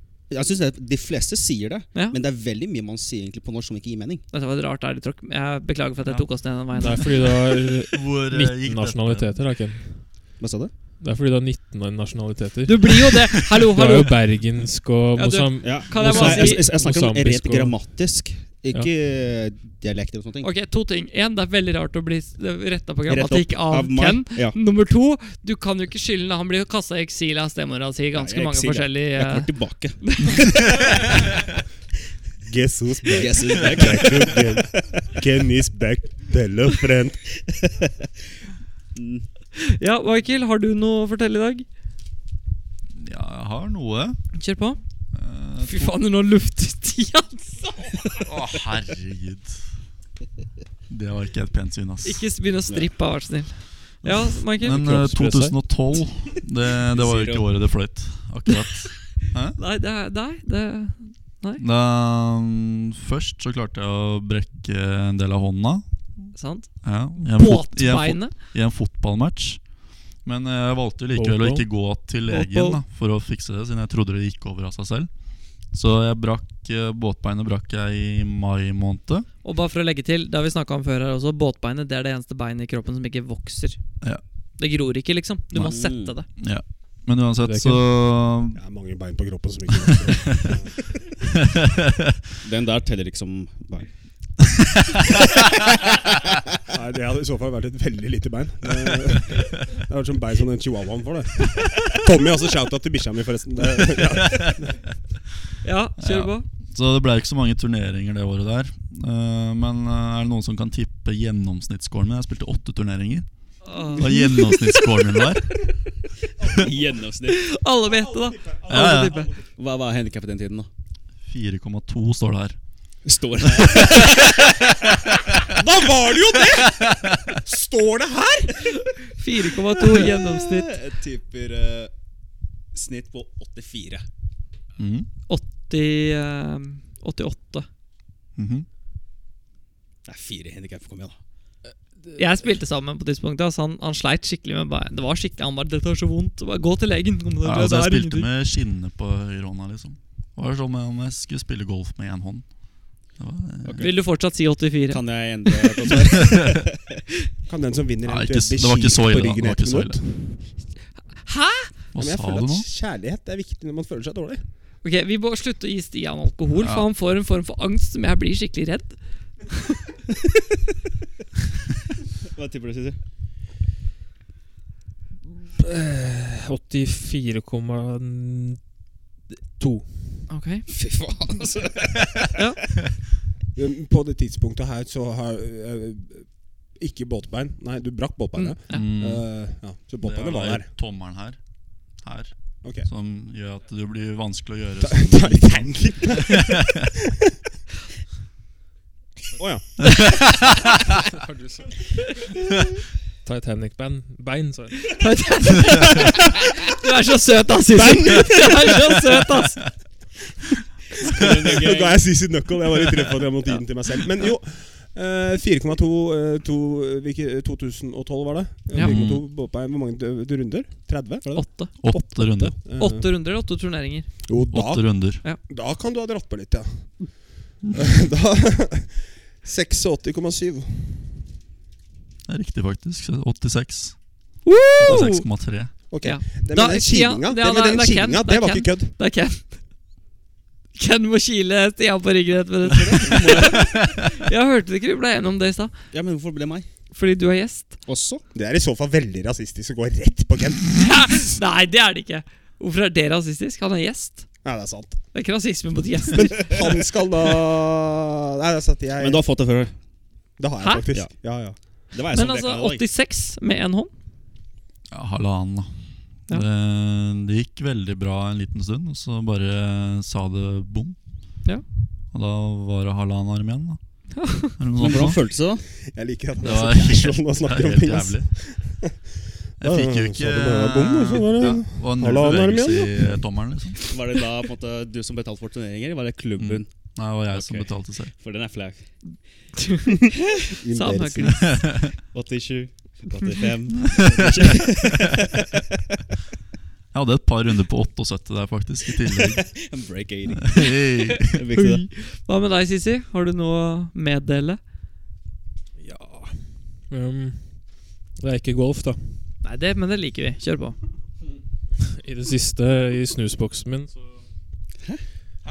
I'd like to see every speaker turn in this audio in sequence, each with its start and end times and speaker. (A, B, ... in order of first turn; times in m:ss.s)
0:00.3-0:04.2 A
0:04.3-0:07.2 B
0:06.7-0:10.3 C
0:07.9-0:09.4 D
0:10.4-0:10.7 A
0:11.0-0:17.8 C
0:12.6-0:14.2 B
0:15.2-0:16.7 B
0:15.6-0:20.5 A
0:20.4-0:30.8 B
0:23.1-0:24.6 A
0:28.1-0:31.2 A
0:32.4-0:37.3 E
0:33.1-0:34.6 A
0:38.9-0:39.2 A
0:39.6-0:41.6 B
0:42.9-0:44.2 D
0:44.3-0:44.8 B
0:45.1-0:45.9 D
0:45.6-0:48.2 B
0:48.2-0:49.6 D
0:50.9-0:52.2 D
0:52.0-0:54.8 B
0:54.6-0:59.6 D
0:54.6-0:55.6 C
0:56.9-0:57.4 A
0:59.6-1:01.6 B
1:01.6-1:06.3 D
1:06.3-1:08.3 B
1:06.8-1:19.3 D
1:11.1-1:11.6 C
1:12.3-1:12.8 B
1:19.4-1:23.8 B
1:24.6-1:26.3 B
1:25.5-1:28.6 D
1:25.6-1:26.1 A
1:27.4-1:27.8 C
1:28.5-1:31.0 E
1:29.8-1:30.5 D
1:31.6-1:32.0 D
1:32.4-1:33.9 A
1:36.7-1:44.8 E
1:44.2-1:44.5 D
1:45.6-1:46.4 B
1:46.0-1:53.3 D
1:53.6-1:54.8 B
1:53.9-1:55.6 D
1:56.5-1:57.5 A
1:57.3-1:59.3 B
1:58.7-1:59.3 D
1:59.5-2:00.7 A
2:01.3-2:02.6 D
2:03.0-2:04.9 A
2:03.6-2:04.3 D
2:05.5-2:08.7 E
2:06.8-2:07.1 D
2:09.0-2:10.7 B
2:09.8-2:11.9 A
2:12.7-2:14.0 A
2:14.8-2:15.1 D
2:15.3-2:17.7 B
2:18.4-2:18.6 D
2:20.0-2:21.2 A
2:22.2-2:28.3 B
2:27.4-2:33.9 D
2:33.6-2:34.0 A
2:33.8-2:35.9 B
2:34.9-2:36.8 A
2:37.5-2:40.2 E
2:38.0-2:40.0 D
2:41.2-2:41.7 B
2:41.9-2:42.6 D
2:42.0-2:44.4 E
2:44.8-2:49.8 B
2:46.6-2:46.8 D
2:52.3-2:53.0 A
2:55.6-2:58.7 C
2:59.3-3:00.2 C
3:00.3-3:00.6 B
3:00.7-3:02.4 A
3:02.3-3:02.6 B
3:03.5-3:10.7 E
3:08.3-3:08.9 B
3:08.7-3:09.2 D
3:10.0-3:11.4 D
3:12.0-3:16.8 D
3:14.8-3:17.3 E
3:19.4-3:19.6 E
3:21.0-3:21.9 C
3:23.2-3:25.0 C
3:24.8-3:29.6 B
3:27.7-3:29.1 E
3:31.0-3:32.0 A
3:31.2-3:41.9 E
3:38.8-3:39.2 D
3:41.3-3:44.1 B
3:41.8-3:42.5 D
3:42.6-3:43.1 E
3:44.3-3:51.2 E
3:44.5-3:45.2 D
3:52.3-3:54.2 D
3:54.4-3:59.6 B
3:54.8-3:55.7 D
3:55.9-3:58.9 E
4:00.8-4:05.8 B
4:02.8-4:03.6 A
4:05.9-4:06.7 A
4:06.9-4:07.8 B
4:07.8-4:08.2 A
4:08.3-4:10.8 E
4:10.8-4:14.3 B
4:14.4-4:15.0 E
4:15.1-4:16.6 B
4:16.1-4:19.2 E
4:19.0-4:19.7 A
4:20.4-4:21.6 E
4:21.9-4:22.8 A
4:22.1-4:23.9 B
4:24.9-4:31.0 D
4:32.1-4:33.8 D
4:34.1-4:34.5 B
4:34.4-4:35.2 D
4:34.8-4:35.6 A
4:35.7-4:39.0 E
4:36.4-4:38.3 D
4:39.6-4:43.2 E
4:39.6-4:43.9 D
4:43.9-4:46.7 A
4:46.4-4:48.1 D
4:47.3-4:48.9 A
4:49.0-4:51.4 B
4:50.5-4:51.4 E
4:51.2-4:51.9 D
4:52.0-4:55.6 A
4:54.2-4:54.7 D
4:56.9-4:59.8 D
4:59.1-5:00.7 A
5:00.4-5:01.3 D
5:01.2-5:04.6 B
5:01.3-5:01.8 A
5:05.8-5:09.3 C
5:09.4-5:10.8 B
5:11.9-5:14.1 C